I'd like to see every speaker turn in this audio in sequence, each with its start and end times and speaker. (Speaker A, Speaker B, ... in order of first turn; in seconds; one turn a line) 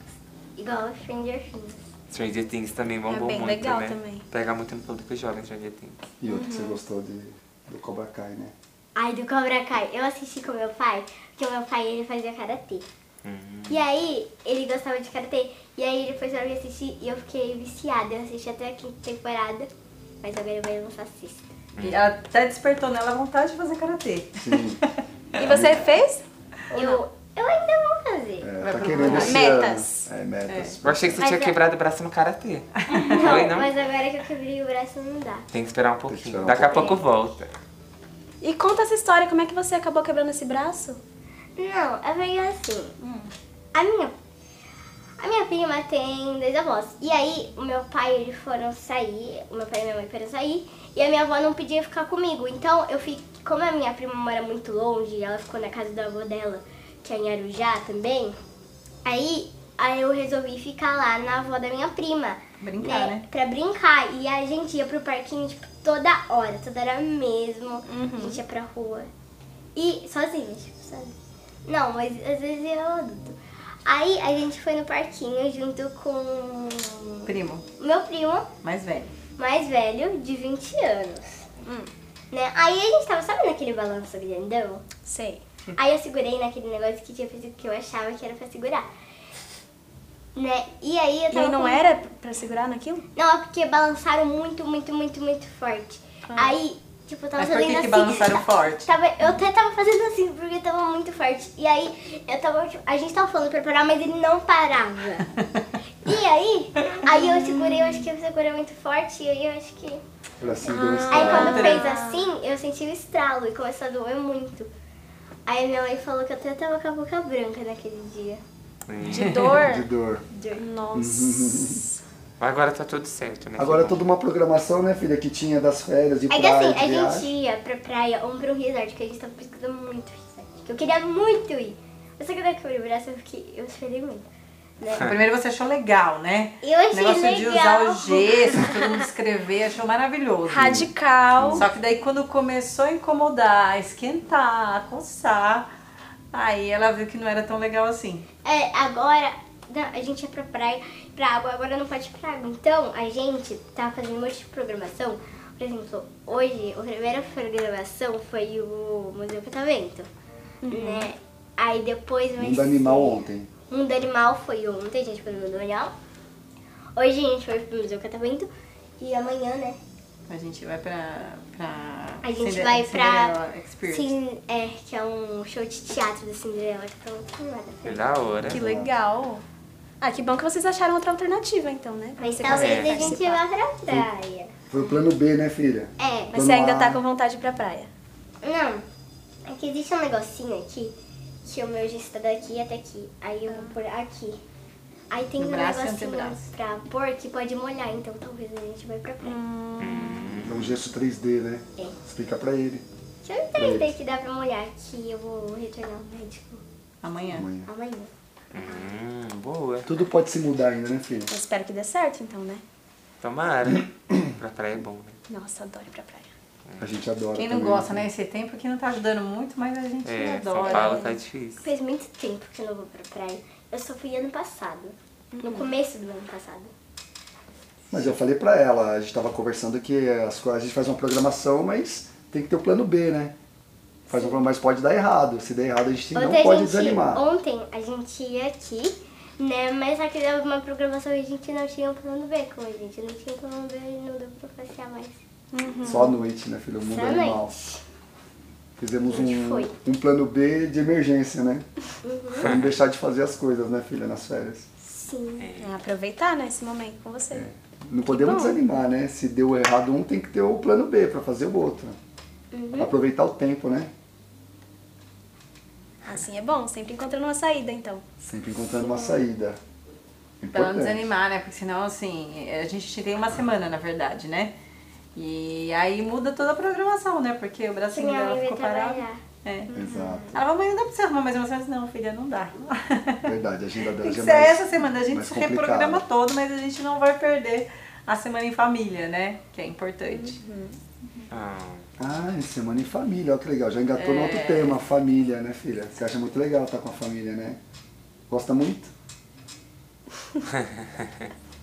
Speaker A: 0.6-1.8
Speaker B: 2.1-6.0
Speaker C: 3.1-4.3
Speaker D: 6.2-8.5
Speaker C: 6.3-6.8
Speaker A: 8.9-12.9
Speaker B: 13.2-13.8
Speaker A: 13.7-19.7
Speaker A: 20.2-21.4
Speaker B: 21.8-22.0
Speaker E: 21.8-24.9
Speaker D: 24.4-24.8
Speaker C: 25.4-26.2
Speaker D: 25.4-25.9
Speaker A: 26.7-29.0
Speaker D: 28.4-31.2
Speaker E: 28.6-29.5
Speaker C: 29.1-30.1
Speaker E: 30.5-30.8
Speaker B: 30.9-33.7
Speaker A: 31.2-31.6
Speaker E: 32.9-33.4
Speaker A: 32.9-35.5
Speaker B: 35.5-37.5
Speaker D: 36.1-37.0
Speaker A: 36.7-37.0
Speaker C: 38.4-41.0
Speaker A: 41.6-43.0
Speaker C: 43.0-43.3
Speaker A: 43.7-44.1
Speaker A: 45.2-58.4
Speaker A: 59.0-69.1
Speaker E: 62.6-63.2
Speaker C: 67.9-68.4
Speaker A: 69.8-78.5
Speaker E: 77.3-77.6
Speaker E: 78.6-79.1
Speaker A: 79.4-81.5
Speaker C: 81.6-81.9
Speaker A: 82.3-84.8
Speaker C: 85.0-85.4
Speaker A: 85.7-88.9
Speaker A: 90.3-91.9
Speaker C: 91.3-93.0
Speaker A: 93.2-105.2
Speaker E: 96.3-96.6
Speaker E: 97.4-98.9
Speaker A: 106.0-110.0
Speaker C: 107.4-108.0
Speaker D: 110.4-111.7
Speaker C: 110.7-112.3
Speaker A: 111.1-114.7
Speaker E: 111.4-111.9
Speaker A: 115.5-118.4
Speaker B: 118.9-119.3
Speaker C: 119.1-119.9
Speaker E: 119.2-119.5
Speaker D: 119.4-120.2
Speaker A: 120.3-120.6
Speaker C: 120.6-122.0
Speaker D: 120.9-121.9
Speaker B: 122.4-124.0
Speaker D: 123.6-127.3
Speaker A: 126.3-134.3
Speaker A: 134.8-135.1
Speaker E: 135.0-140.7
Speaker A: 136.6-138.6
Speaker C: 138.6-139.0
Speaker C: 140.5-141.7
Speaker D: 140.6-141.6
Speaker E: 141.5-145.7
Speaker E: 146.3-148.2
Speaker A: 148.4-160.1
Speaker C: 160.6-161.1
Speaker A: 160.7-165.9
Speaker D: 162.4-163.5
Speaker A: 167.0-169.8
Speaker E: 170.3-174.1
Speaker A: 172.2-173.3
Speaker A: 173.9-178.1
Speaker B: 177.9-178.6
Speaker D: 178.5-178.9
Speaker C: 178.5-179.4
Speaker C: 180.0-183.4
Speaker A: 182.2-184.5
Speaker B: 182.5-183.1
Speaker D: 184.7-187.0
Speaker A: 186.0-186.3
Speaker C: 186.3-187.9
Speaker A: 188.4-188.9
Speaker A: 189.5-194.4
Speaker C: 193.5-193.7
Speaker A: 195.1-199.4
Speaker E: 195.4-196.5
Speaker C: 199.2-200.3
Speaker B: 199.8-200.8
Speaker D: 200.5-202.8
Speaker A: 203.2-206.6
Speaker D: 203.6-203.9
Speaker E: 207.0-207.5
Speaker D: 207.3-207.7
Speaker A: 207.6-208.9
Speaker B: 208.5-209.9
Speaker D: 209.8-211.3
Speaker C: 211.3-212.6
Speaker B: 213.2-215.2
Speaker C: 215.3-216.3
Speaker D: 216.8-218.1
Speaker E: 217.4-221.1
Speaker B: 220.0-221.7
Speaker C: 220.6-221.1
Speaker A: 221.6-226.7
Speaker C: 225.3-225.7
Speaker D: 227.9-233.3
Speaker D: 234.1-237.2
Speaker C: 234.1-234.4
Speaker A: 236.1-245.2
Speaker C: 245.5-246.2
Speaker D: 245.8-247.6
Speaker A: 246.8-247.8
Speaker D: 248.8-251.7
Speaker A: 249.1-249.7
Speaker A: 252.0-252.5
Speaker D: 252.4-254.7
Speaker A: 254.8-255.5
Speaker B: 255.4-255.7
Speaker C: 255.6-257.5
Speaker D: 257.3-262.0
Speaker C: 258.1-258.6
Speaker A: 262.5-262.9
Speaker D: 262.8-263.9
Speaker C: 266.1-268.0
Speaker D: 268.2-269.6
Speaker A: 268.8-269.2
Speaker D: 270.4-271.0
Speaker E: 270.5-274.5
Speaker E: 275.1-279.7
Speaker A: 277.9-279.2
Speaker D: 279.7-280.4
Speaker C: 279.7-280.4
Speaker E: 280.3-283.3
Speaker D: 283.2-286.0
Speaker E: 283.9-290.4
Speaker C: 290.1-290.8
Speaker B: 291.3-291.9
Speaker D: 292.0-297.6
Speaker E: 293.9-294.8
Speaker D: 298.3-298.9